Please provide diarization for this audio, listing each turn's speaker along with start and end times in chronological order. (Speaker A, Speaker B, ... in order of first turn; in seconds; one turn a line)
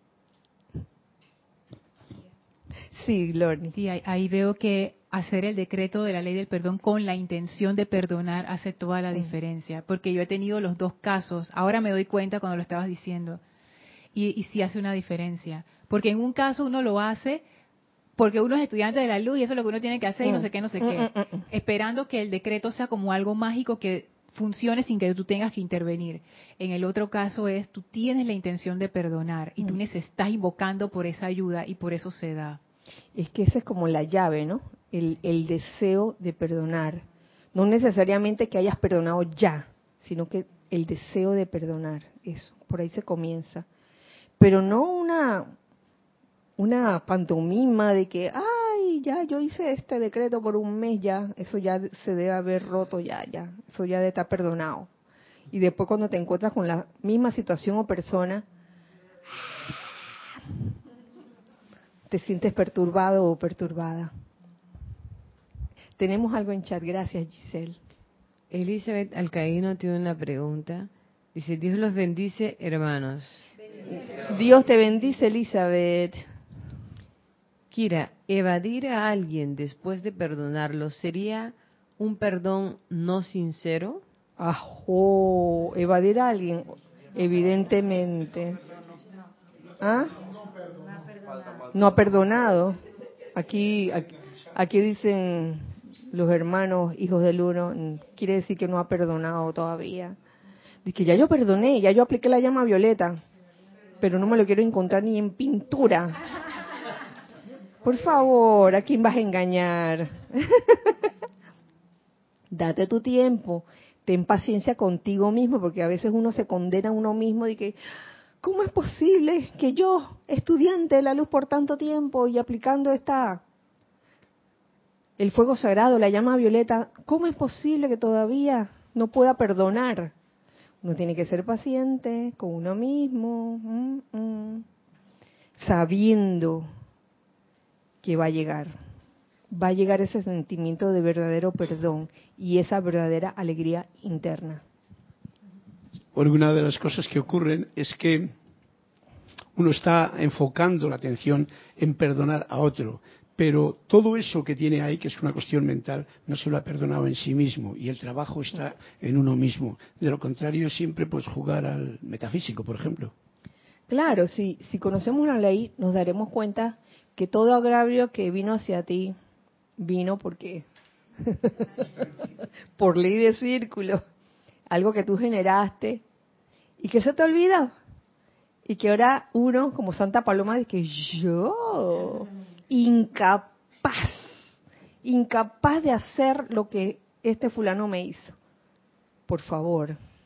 Speaker A: 2.9-3.8
Speaker B: 3.7-13.4
Speaker B: 14.1-17.4
Speaker B: 18.2-32.6
Speaker A: 20.2-21.5
Speaker A: 33.1-43.6
Speaker A: 44.4-45.5
Speaker A: 46.6-54.9
Speaker A: 55.5-58.4
Speaker A: 62.1-64.1
Speaker A: 66.0-67.8
Speaker C: 68.5-73.5
Speaker A: 73.9-76.2
Speaker C: 77.7-84.0
Speaker A: 84.4-88.6
Speaker A: 89.8-90.2
Speaker A: 91.7-92.8
Speaker A: 93.3-100.2
Speaker A: 100.8-103.2
Speaker A: 104.0-106.2
Speaker A: 107.8-110.9
Speaker A: 112.5-117.8
Speaker A: 118.4-123.4
Speaker A: 125.2-130.1
Speaker A: 130.8-134.6
Speaker A: 135.6-136.7
Speaker A: 138.0-138.7
Speaker A: 139.5-144.6
Speaker D: 146.1-148.3
Speaker D: 149.5-163.1
Speaker A: 163.9-169.2
Speaker A: 169.8-170.6
Speaker A: 171.2-172.2
Speaker A: 172.8-174.0
Speaker A: 174.7-176.0
Speaker A: 176.8-177.7
Speaker A: 178.6-188.3
Speaker A: 189.3-190.0